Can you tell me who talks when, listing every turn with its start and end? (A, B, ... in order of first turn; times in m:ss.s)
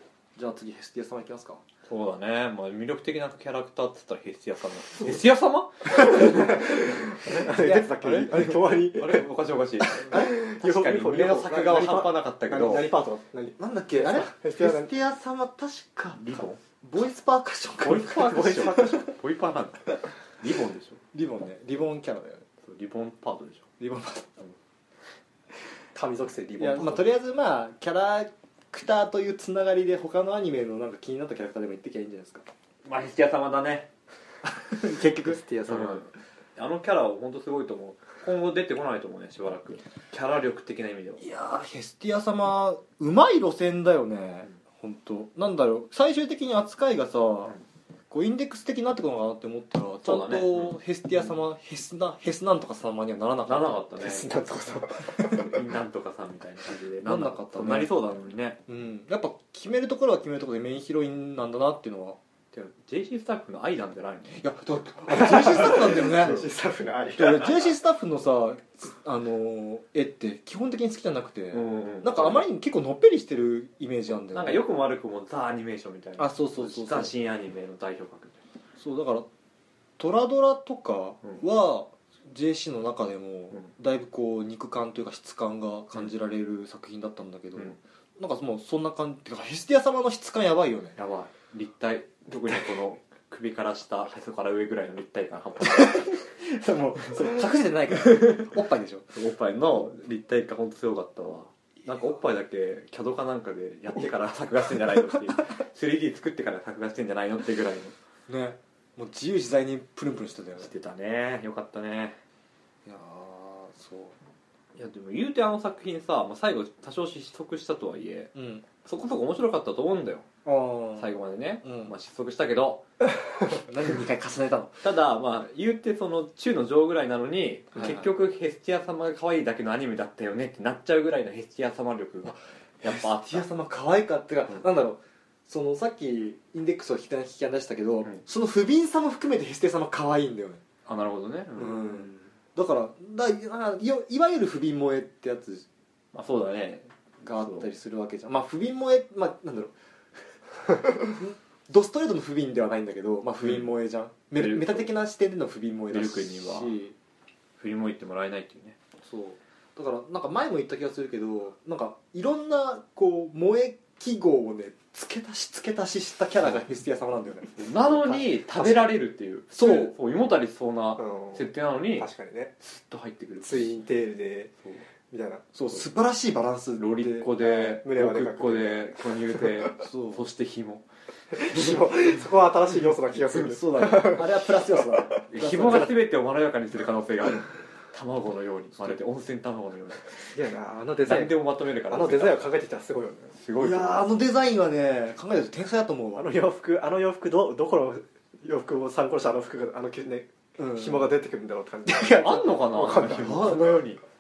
0:00.4-0:01.6 A
0:01.9-0:12.9 B
0:06.1-0:09.3 C
0:10.0-0:14.9 C
0:10.1-0:10.4 A
0:13.6-0:19.1 A
0:16.2-0:16.6 B
0:17.8-0:21.0 B
0:21.1-0:22.4 A
0:22.6-0:23.7 B
0:23.8-0:24.3 A
0:25.9-0:27.1 C
0:26.6-0:32.5 A
0:32.8-0:33.9 B
0:34.7-0:35.4 A
0:34.8-0:36.0 C
0:35.7-0:41.2 B
0:41.2-0:47.6 A
0:48.1-0:53.8 A
0:50.0-0:50.8 B
0:53.5-0:54.4 B
0:54.0-0:55.6 C
0:55.0-0:58.6 B
0:57.1-0:57.9 A
0:58.7-1:02.2 A
1:02.5-1:04.4 B
1:04.3-1:06.5 A
1:05.1-1:07.6 C
1:07.1-1:14.7 A
1:11.5-1:12.4 B
1:14.3-1:18.4 B
1:16.2-1:17.1 A
1:18.8-1:19.3 A
1:20.0-1:31.0 A
1:31.0-1:36.2 B
1:35.6-1:39.2 A
1:39.1-1:48.0 B
1:48.3-1:50.7 A
1:50.6-1:52.2 B
1:52.9-1:54.2 A
1:54.8-1:58.3 B
1:58.3-1:58.7 A
1:58.8-2:00.3 B
2:00.4-2:01.9 A
2:01.0-2:02.8 B
2:03.5-2:04.9 A
2:04.8-2:13.5 B
2:12.8-2:20.6 A
2:20.9-2:22.1 B
2:21.6-2:25.7 A
2:26.1-2:27.7 B
2:27.2-2:29.7 A
2:30.6-2:37.0 A
2:34.4-2:34.9 B
2:35.9-2:36.8 B
2:37.6-2:38.8 B
2:39.0-2:48.8 A
2:47.6-2:53.8 B
2:49.5-2:49.9 A
2:51.0-2:52.5 C
2:53.4-2:54.5 C
2:55.1-2:55.4 C
2:55.5-2:57.3 A
2:56.8-3:01.9 B
2:57.3-2:59.6 C
2:59.8-3:00.2 A
3:01.3-3:05.0 C
3:03.3-3:06.0 A
3:05.3-3:10.4 B
3:10.3-3:13.3 C
3:11.0-3:12.5 B
3:13.3-3:14.1 B
3:13.6-3:16.3 A
3:16.2-3:23.7 C
3:20.6-3:21.1 A
3:21.9-3:23.8 A
3:22.1-3:24.0 B